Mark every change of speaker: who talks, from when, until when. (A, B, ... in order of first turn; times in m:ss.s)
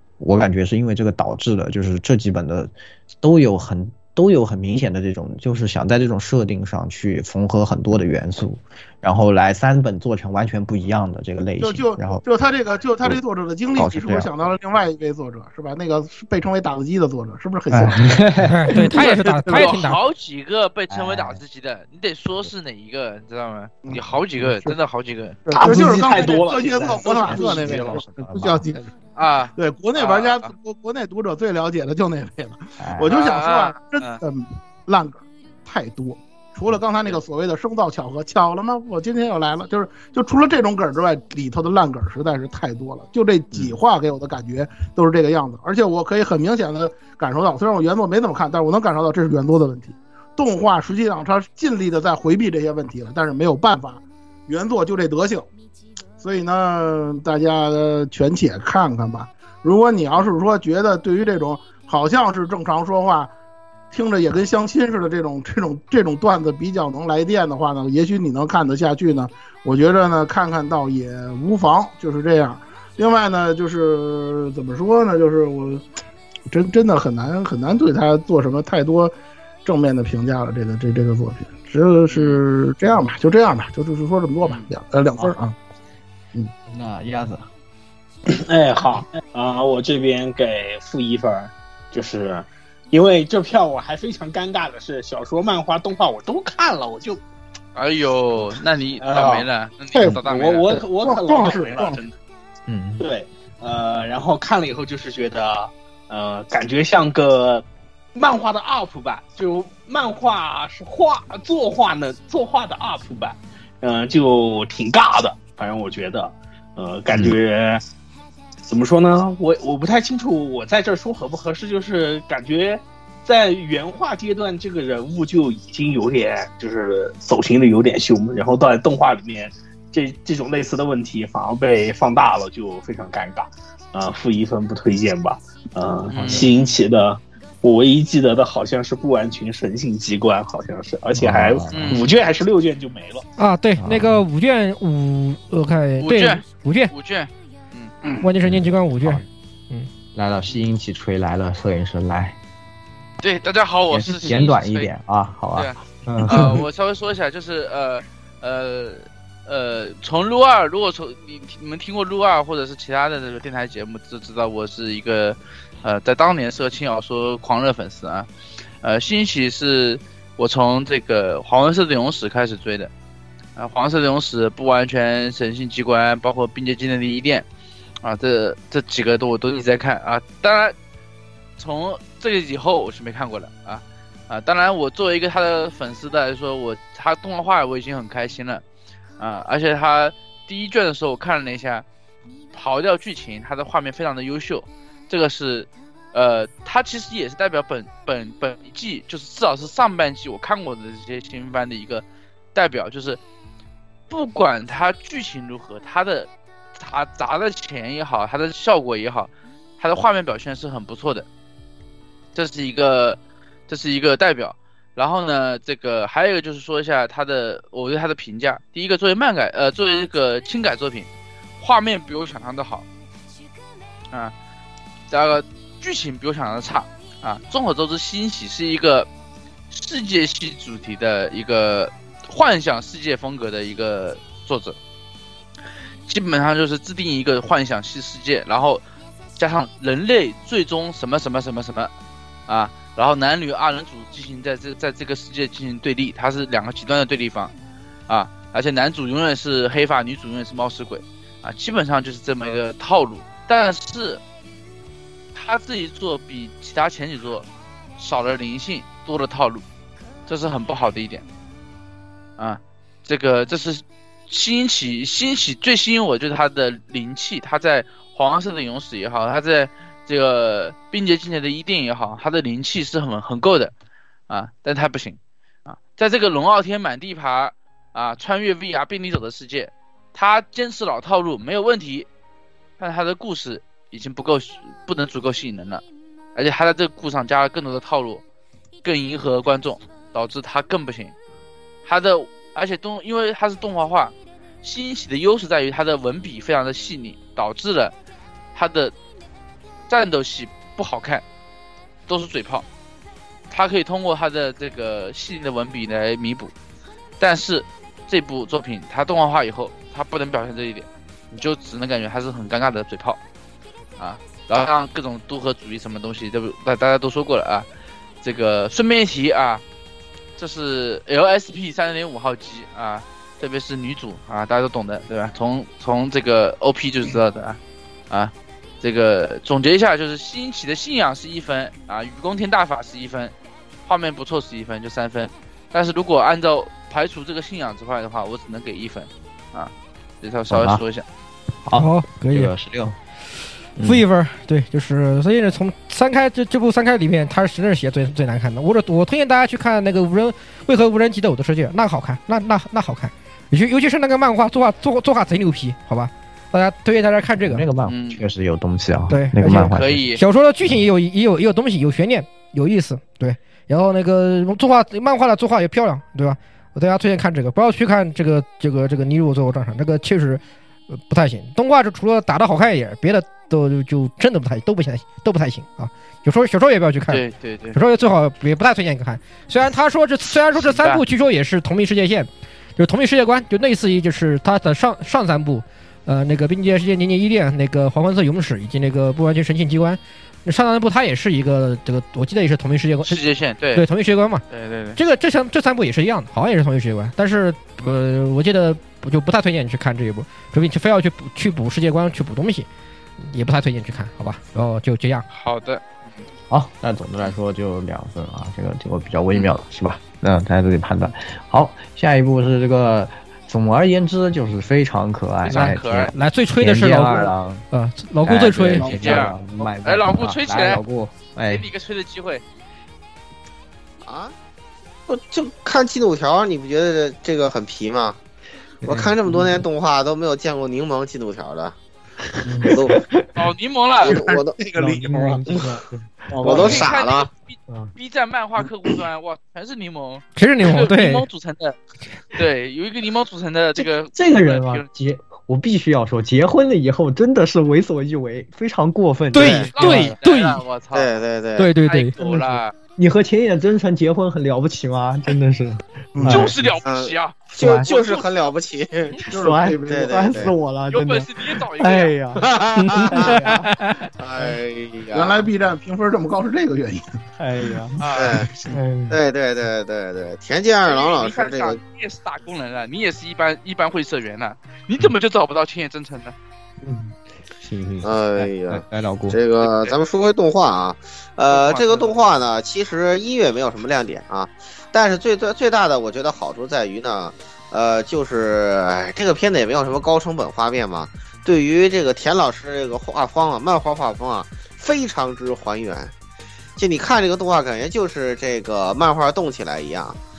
0:00.2-0:12.2 A
0:11.6-0:19.6 B
0:13.8-0:14.3 A
0:17.7-0:18.7 A
0:18.5-0:20.0 C
0:18.9-0:25.4 D
0:20.9-0:21.4 A
0:23.8-0:24.8 B
0:25.4-0:28.9 B
0:25.5-0:27.9 E
0:27.0-0:28.7 A
0:29.2-0:30.5 D
0:29.6-0:55.5 B
0:32.8-0:33.2 A
0:33.1-0:34.2 D
0:56.2-1:03.3 B
1:03.9-1:15.8 B
1:16.5-1:19.1 B
1:19.6-1:25.6 B
1:22.1-1:22.4 D
1:26.7-1:27.5 A
1:28.3-1:37.2 E
1:37.7-1:40.8 D
1:39.0-1:39.5 E
1:40.0-1:42.0 B
1:40.1-1:42.2 E
1:42.7-1:43.0 A
1:43.0-1:57.8 E
1:58.6-2:23.2 E
2:16.1-2:16.8 D
2:21.2-2:22.0 A
2:21.7-2:22.1 D
2:23.4-2:26.9 C
2:23.8-2:24.2 A
2:26.0-2:27.9 D
2:28.2-2:29.9 C
2:28.4-2:29.3 A
2:30.1-2:32.4 A
2:33.2-2:34.9 D
2:33.9-2:36.6 A
2:35.5-2:48.3 D
2:48.8-2:52.9 D
2:53.6-2:57.4 D
2:58.0-3:00.7 D
3:01.6-3:08.6 D
3:09.2-3:11.8 D
3:12.5-3:22.0 D
3:22.6-3:23.2 D
3:24.1-3:31.3 D
3:32.4-3:41.1 D
3:41.6-3:42.9 D
3:45.1-3:49.1 D
3:49.7-3:54.8 D
3:56.1-3:58.8 D
3:59.4-4:01.9 D
4:02.5-4:07.5 D
4:08.1-4:14.2 D
4:15.4-4:17.5 D
4:18.0-4:19.6 D
4:20.3-4:21.2 D
4:22.4-4:33.7 D
4:34.3-4:42.1 D
4:42.8-4:45.8 D
4:46.4-4:48.2 D
4:48.8-4:51.1 D
4:51.8-4:57.9 D
4:58.6-4:58.9 D
4:59.9-5:01.2 D
5:02.1-5:02.6 D
5:03.5-5:06.5 D
5:07.2-5:13.2 D
5:14.0-5:17.6 D
5:18.2-5:19.6 D
5:20.4-5:27.6 D
5:28.1-5:33.3 D
5:33.9-5:39.7 D
5:40.2-5:41.0 D
5:40.5-5:40.8 A
5:41.6-5:43.0 A
5:41.8-5:42.5 C
5:43.8-5:44.0 A
5:43.8-5:57.6 C
5:57.4-6:00.1 A
5:57.9-5:58.2 D
5:59.1-6:10.4 C
5:59.6-6:00.2 D
6:10.9-6:17.2 C
6:17.1-6:17.8 D
6:17.7-6:33.2 C
6:20.6-6:21.0 D
6:33.0-6:33.9 D
6:33.7-6:34.4 C
6:34.5-6:35.0 D
6:35.0-6:42.7 C
6:43.2-6:45.3 C
6:45.3-6:46.2 D
6:46.5-6:57.6 A
6:55.4-6:56.1 D
6:56.1-6:59.0 C
6:58.2-7:01.6 A
6:58.8-7:00.8 D
7:01.5-7:02.4 D
7:04.0-7:04.3 F
7:05.1-7:08.2 F
7:08.8-7:09.6 A
7:08.8-7:11.8 F
7:12.4-7:13.2 A
7:12.6-7:13.0 F
7:13.4-7:14.3 D
7:14.0-7:14.6 F
7:14.1-7:15.8 B
7:14.8-7:16.8 A
7:16.4-7:16.8 B
7:16.4-7:17.3 F
7:16.4-7:21.8 D
7:20.4-7:21.3 C
7:22.3-7:24.8 D
7:23.8-7:30.1 A
7:29.3-7:30.6 C
7:29.4-7:30.0 F
7:29.8-7:31.2 D
7:30.9-7:31.7 F
7:31.6-7:32.1 C
7:31.8-7:32.7 D
7:32.2-7:36.7 A
7:36.2-7:36.5 B
7:36.3-7:38.5 D
7:36.8-7:39.3 F
7:37.6-7:37.9 A
7:39.3-7:40.4 B
7:39.3-7:44.0 A
7:39.9-7:40.5 F
7:40.9-7:42.2 D
7:42.4-7:43.4 F
7:43.1-7:43.6 D
7:44.2-7:45.5 F
7:45.1-7:47.2 B
7:47.4-7:48.0 A
7:48.0-7:48.4 D
7:48.1-7:48.5 F
7:48.6-7:49.2 A
7:49.1-7:51.8 F
7:50.8-7:56.4 D
7:56.8-7:59.4 A
7:58.0-8:16.1 F
7:59.6-8:00.0 D
8:01.5-8:02.2 D
8:16.8-8:20.2 F